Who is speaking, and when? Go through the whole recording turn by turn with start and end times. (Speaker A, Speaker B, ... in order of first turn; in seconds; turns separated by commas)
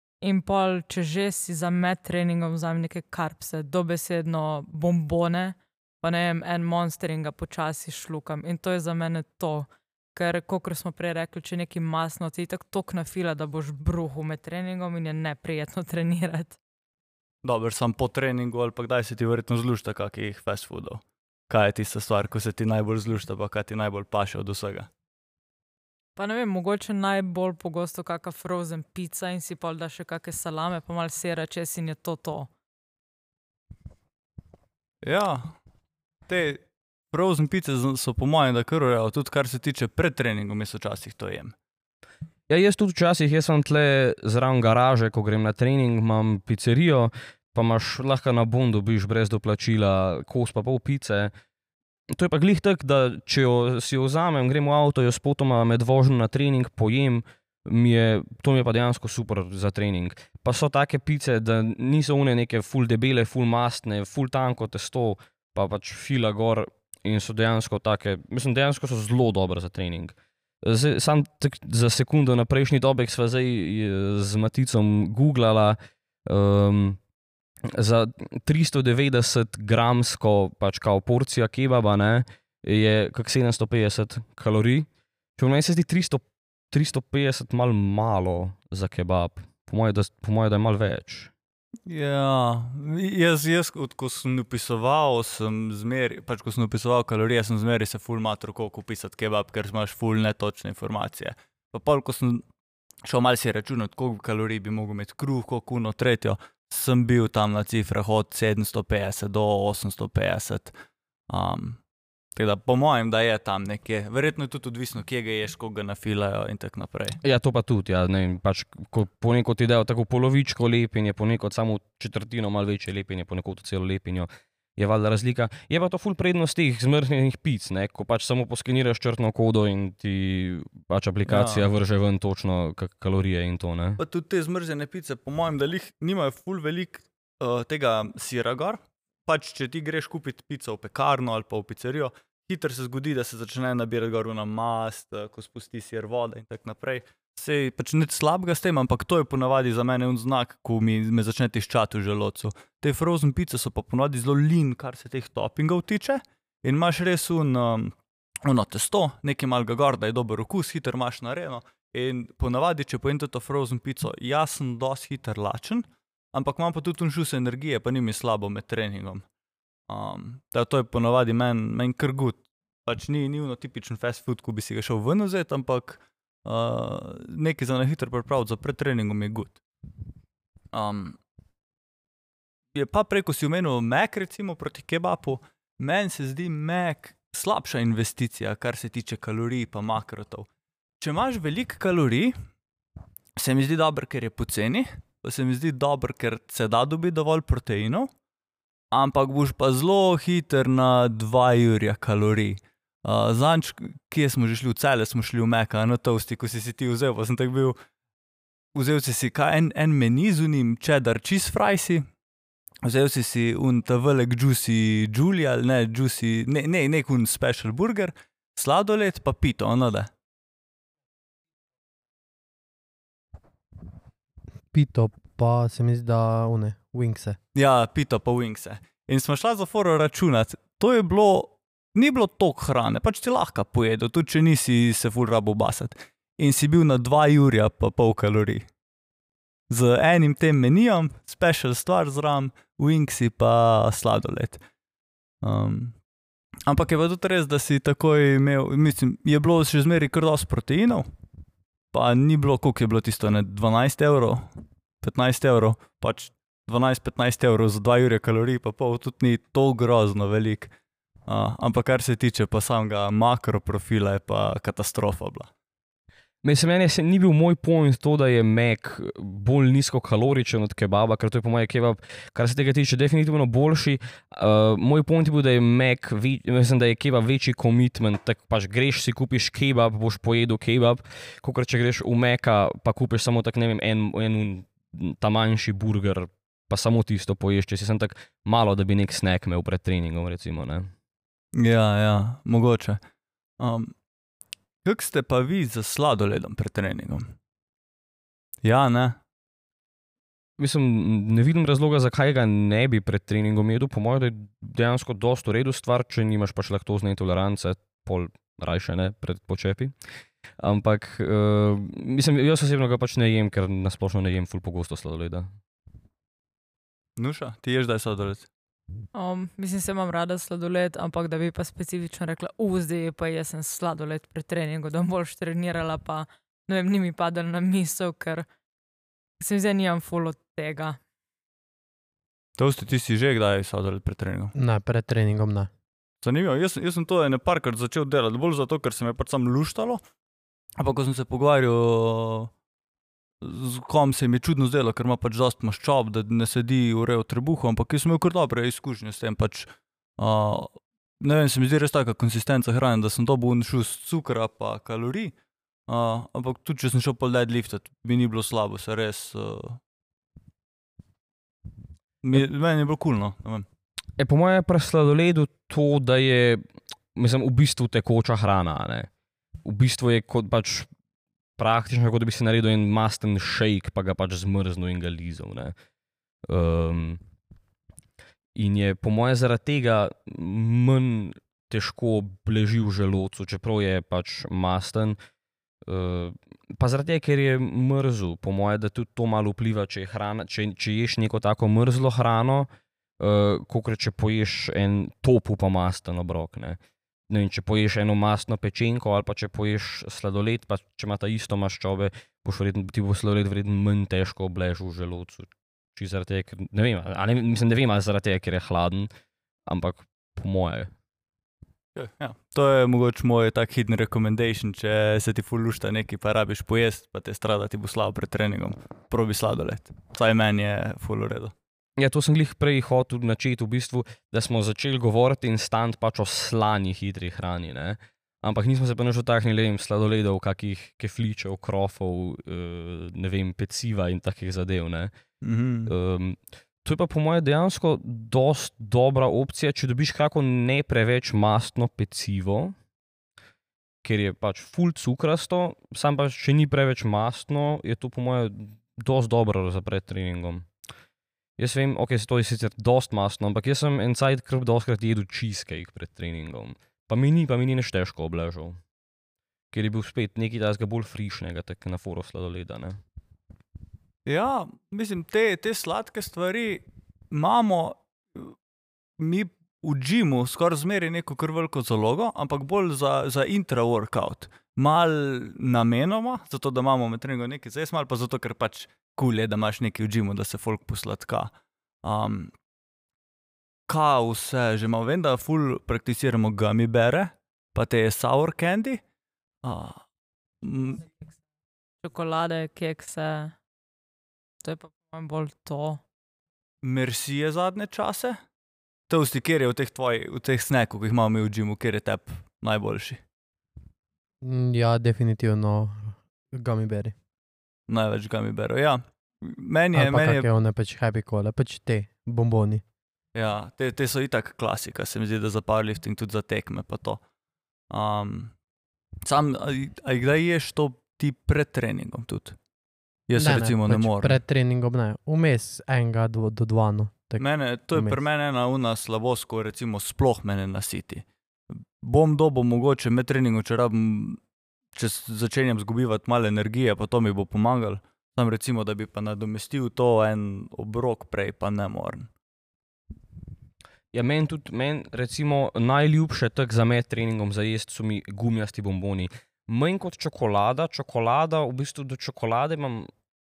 Speaker A: 0.2-16.6, Speaker B: 17.4-24.9, Speaker A: 26.1-32.5, Speaker B: 35.0-35.5, Speaker B: 36.3-41.5, Speaker C: 42.5-51.3, Speaker C: 52.1-77.0, Speaker C: 77.7-91.3, Speaker B: 91.9-102.5, Speaker B: 103.0-110.8, Speaker B: 111.3-111.8, Speaker B: 112.3-117.2, Speaker C: 117.2-134.0, Speaker B: 131.3-131.7, Speaker B: 134.0-169.2, Speaker B: 169.9-179.6, Speaker B: 180.7-181.2, Speaker B: 182.7-190.5, Speaker B: 191.0-192.3, Speaker B: 193.3-198.1, Speaker B: 198.9-207.8, Speaker B: 208.7-212.1, Speaker B: 212.8-220.1, Speaker D: 224.7-227.4, Speaker B: 227.5-238.7, Speaker B: 239.7-244.6, Speaker B: 245.4-245.9, Speaker B: 246.7-251.1, Speaker B: 251.9-260.7, Speaker B: 261.3-265.5, Speaker C: 266.4-290.9, Speaker B: 291.5-293.0, Speaker B: 293.6-293.9, Speaker B: 294.8-297.3, Speaker B: 298.6-299.2, Speaker C: 300.6-309.9, Speaker C: 310.6-315.5, Speaker B: 317.2-318.5, Speaker A: 319.1-328.4, Speaker A: 329.4-331.0, Speaker B: 332.6-334.5, Speaker D: 334.5-335.7, Speaker B: 336.2-340.0, Speaker B: 340.8-342.5, Speaker B: 343.4-355.3, Speaker B: 355.9-359.8, Speaker B: 362.2-363.6, Speaker C: 364.2-366.6, Speaker C: 367.1-369.1, Speaker C: 369.6-370.9, Speaker C: 371.6-375.7, Speaker C: 376.5-377.2, Speaker C: 378.6-385.2, Speaker C: 385.8-392.7, Speaker C: 393.2-409.1, Speaker C: 409.7-410.9, Speaker B: 411.9-421.5, Speaker C: 422.0-435.1, Speaker B: 435.4-435.9, Speaker C: 435.9-442.7, Speaker C: 444.0-450.7, Speaker C: 451.6-458.8, Speaker C: 459.7-463.0, Speaker B: 464.2-468.5, Speaker B: 469.2-481.5, Speaker B: 482.0-482.5, Speaker B: 483.9-489.0, Speaker B: 489.6-490.0, Speaker B: 490.6-491.0, Speaker A: 492.0-493.5, Speaker A: 494.6-496.0, Speaker B: 496.8-498.4, Speaker B: 499.1-503.2, Speaker D: 504.4-507.1, Speaker B: 507.9-510.4, Speaker D: 509.9-512.8, Speaker B: 513.3-517.2, Speaker B: 517.9-518.5, Speaker B: 519.2-522.6, Speaker B: 523.3-524.4, Speaker D: 523.4-528.2, Speaker B: 527.4-534.4, Speaker B: 534.9-542.3, Speaker C: 544.1-553.1